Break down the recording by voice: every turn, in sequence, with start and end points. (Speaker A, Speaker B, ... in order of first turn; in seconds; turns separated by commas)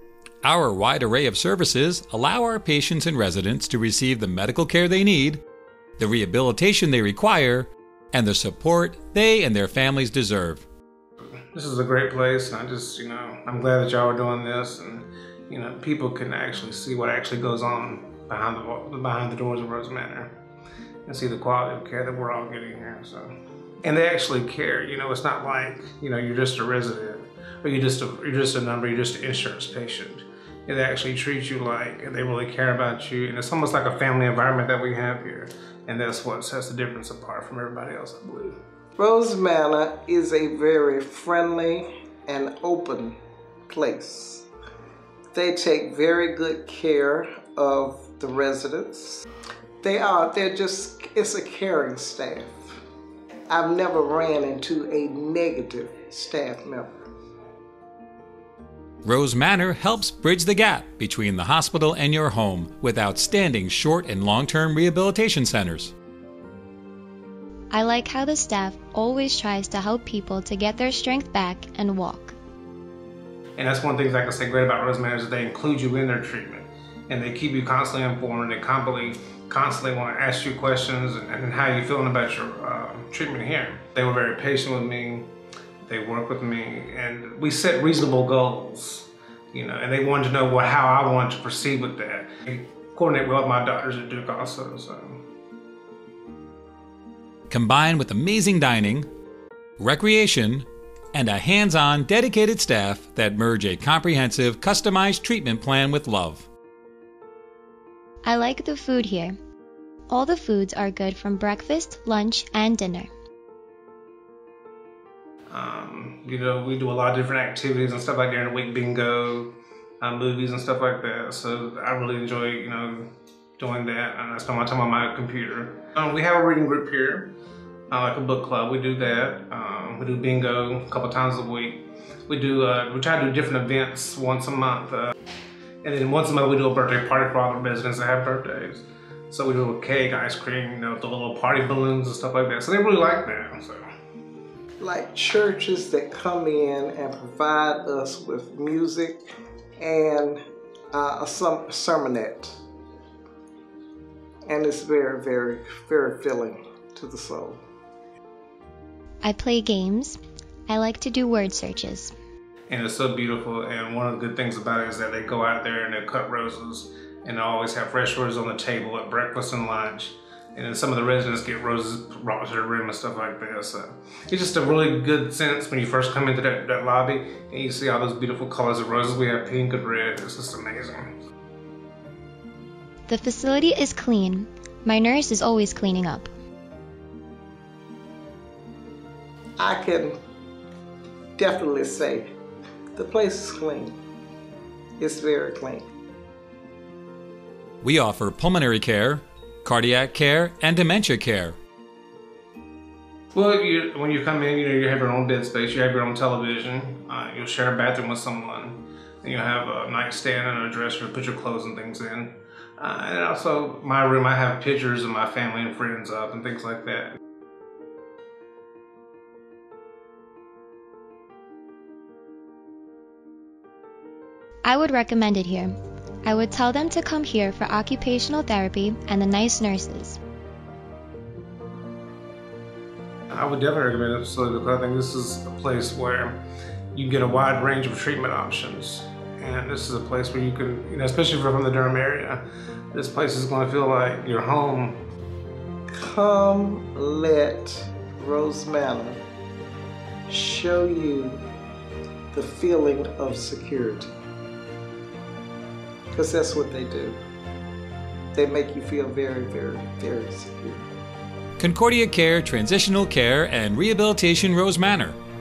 Speaker A: 0.4-5.4, Speaker A: 6.0-10.6, Speaker B: 11.5-20.3, Speaker B: 21.1-38.5, Speaker C: 39.0-43.2, Speaker C: 43.7-44.5, Speaker C: 45.3-49.2, Speaker C: 49.8-52.8, Speaker C: 53.5-56.9, Speaker A: 59.0-65.9, Speaker D: 67.7-72.3, Speaker B: 73.6-85.3, Speaker B: 85.8-95.2, Speaker A: 97.5-99.1, Speaker A: 99.8-106.5, Speaker D: 108.2-109.3, Speaker D: 110.1-113.1, Speaker B: 115.5-127.3, Speaker B: 127.9-135.1, Speaker B: 135.8-143.8, Speaker C: 144.8-149.2, Speaker C: 149.8-150.4, Speaker C: 150.9-152.6, Speaker C: 154.5-157.6, Speaker D: 159.2-162.1, Speaker B: 162.7-181.1, Speaker D: 183.1-186.3, Speaker C: 189.6-190.2, Speaker C: 191.3-192.3, Speaker C: 192.9-194.0, Speaker C: 195.0-195.9, Speaker A: 197.8-201.6, Speaker B: 203.3-217.2, Speaker D: 224.6-230.2, Speaker B: 233.3-236.4, Speaker B: 236.9-245.0, Speaker C: 245.9-249.2, Speaker C: 250.3-251.4, Speaker C: 252.3-254.1, Speaker C: 256.1-257.2, Speaker C: 258.3-260.9, Speaker A: 261.6-265.2